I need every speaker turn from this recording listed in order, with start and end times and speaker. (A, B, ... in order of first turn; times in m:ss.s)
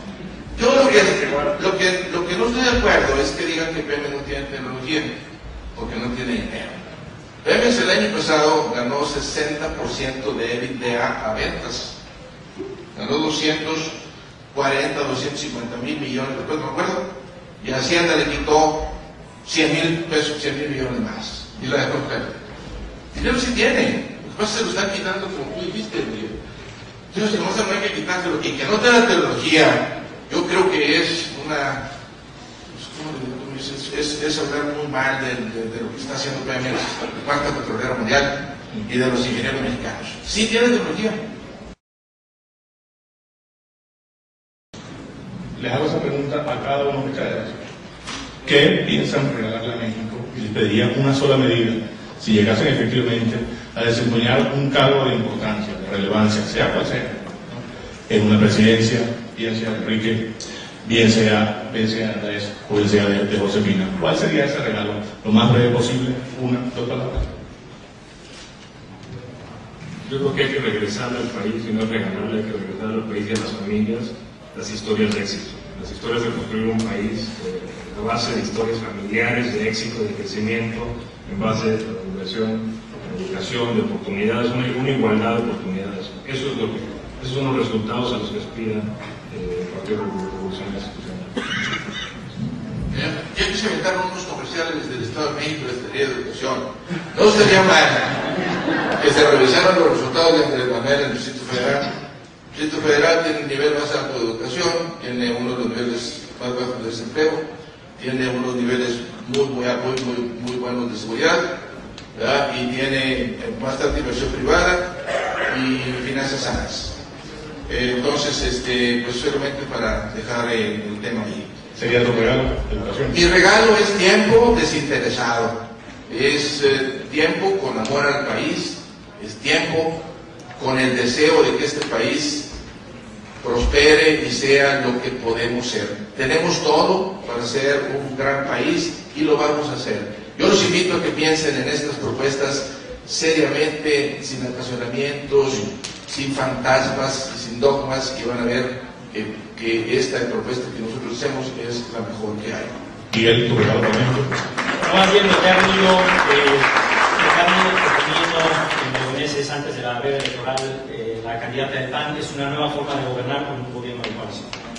0:00.5-0:05.1 A
0:00.8-0:01.6 B
0:05.7-0:06.8 A
0:07.4-0:12.0 A
0:12.9-0:13.9 A
0:14.5-0:17.0 A
0:17.6-0:18.8 A
0:19.4-0:22.4 A
0:23.1-0:26.4 A
0:27.1-0:31.8 A
0:32.7-0:41.2 A
0:45.5-0:47.6 C
0:48.4-1:00.3 C
1:00.8-1:07.3 C
1:10.0-1:31.3 B
1:32.9-1:38.2 A
1:39.0-1:41.8 A
1:42.5-1:47.4 A
1:48.0-1:51.5 A
1:52.1-1:54.8 A
1:55.5-1:56.9 A
1:57.6-2:01.5 A
2:01.7-2:03.2 C
2:03.1-2:05.6 A
2:06.1-2:10.0 A
2:10.6-2:12.5 A
2:13.4-2:32.8 A
2:33.1-2:34.3 C
2:34.8-2:44.5 D